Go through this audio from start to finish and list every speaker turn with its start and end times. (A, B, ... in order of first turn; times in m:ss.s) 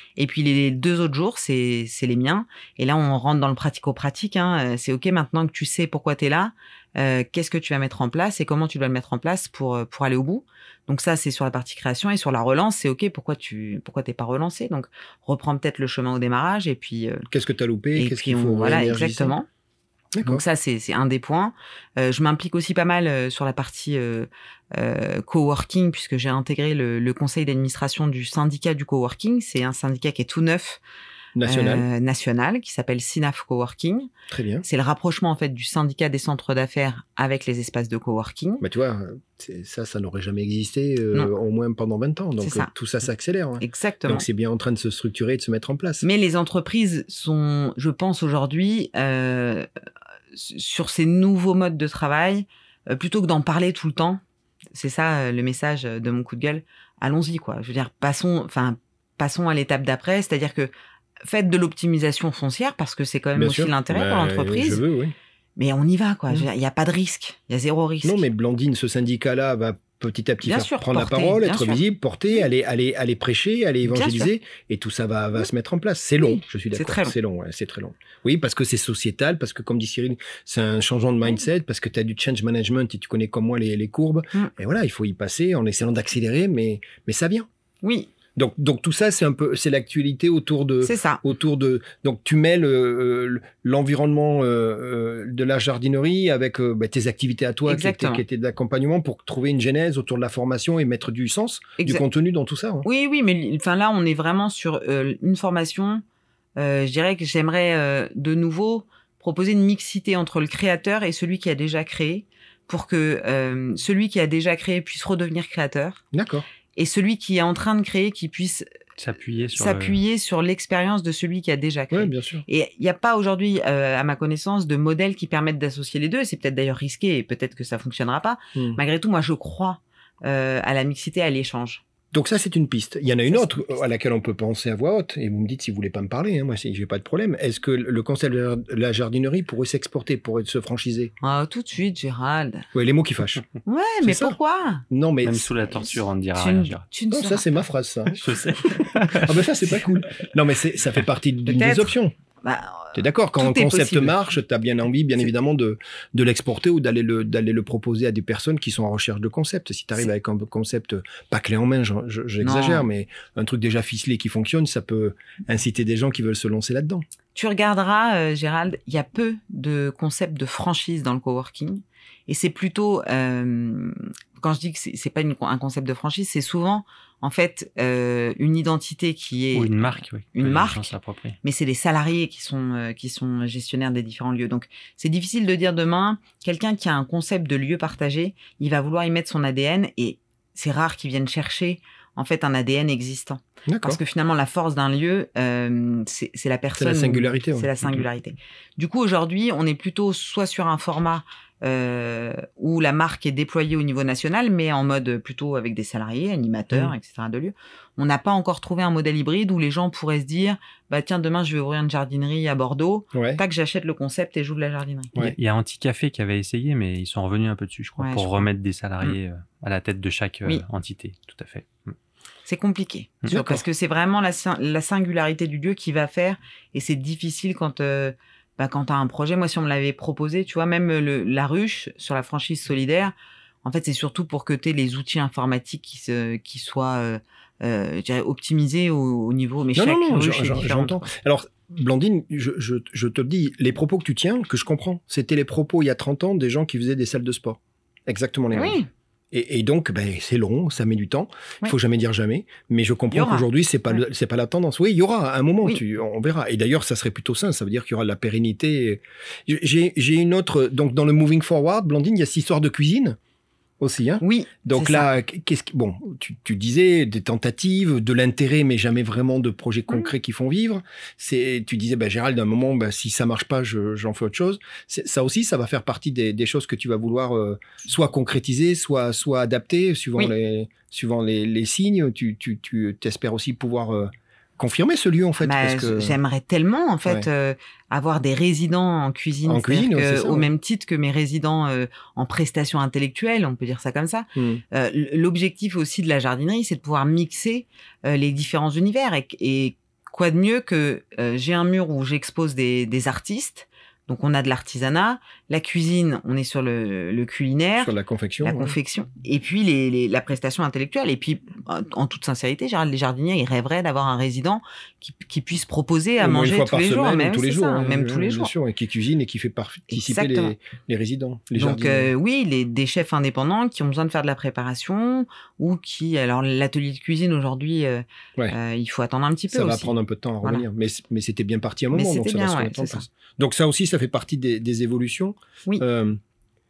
0:00.2-0:17.2 A
0:17.3-0:19.3 B
0:18.0-0:19.5 A
0:20.1-0:20.4 B
0:20.2-0:30.8 A
0:31.3-0:31.8 B
0:31.4-0:34.1 A
0:34.3-0:34.6 B
0:34.6-0:38.6 A
0:38.6-0:46.0 B
0:42.4-0:42.7 A
0:43.6-0:44.2 A
0:46.0-0:49.7 A
0:50.3-0:54.2 A
0:54.7-1:00.7 A
1:01.2-1:04.8 A
1:03.4-1:05.1 B
1:05.6-1:08.2 A
1:08.0-1:27.5 B
1:10.4-1:11.8 A
1:13.8-1:14.3 A
1:16.3-1:17.1 A
1:27.8-1:28.1 A
1:28.4-1:42.9 B
1:30.8-1:31.2 A
1:37.6-1:38.2 A
1:41.8-1:42.0 A
1:42.8-1:46.0 A
1:46.6-1:56.0 A
1:56.1-1:56.5 B
1:56.8-1:58.7 A
1:59.0-2:00.0 C
1:59.5-2:11.8 A
2:01.9-2:02.4 B
2:12.1-2:21.1 B
2:13.3-2:13.8 A
2:21.2-2:22.7 A
2:22.7-2:23.4 B
2:23.6-2:24.8 A
2:24.0-2:24.4 B
2:24.9-2:25.5 B
2:25.2-2:26.8 C
2:26.3-2:27.4 A
2:27.1-2:28.2 B
2:28.1-2:29.4 C
2:28.8-2:32.1 B
2:31.4-2:34.1 A
2:32.9-2:47.0 B
2:42.4-2:42.9 A
2:47.3-3:35.2 A
2:59.5-3:01.4 C
3:13.7-3:14.0 B
3:16.8-3:17.7 B
3:33.1-3:33.4 B
3:35.2-3:41.9 C
3:38.0-3:38.5 A
3:42.4-4:01.1 A
3:43.3-3:43.6 B
3:59.7-4:08.8 B
4:08.5-4:08.9 A
4:09.3-4:23.2 B
4:13.1-4:13.5 A
4:23.8-4:46.2 B
4:24.2-4:25.1 A
4:45.4-5:18.5 A
4:49.4-4:50.5 B
4:54.4-4:54.6 B
5:07.8-5:08.8 B
5:16.2-5:22.1 B
5:19.9-5:20.5 A
5:21.5-5:30.6 A
5:29.5-5:36.2 B
5:31.9-5:33.0 A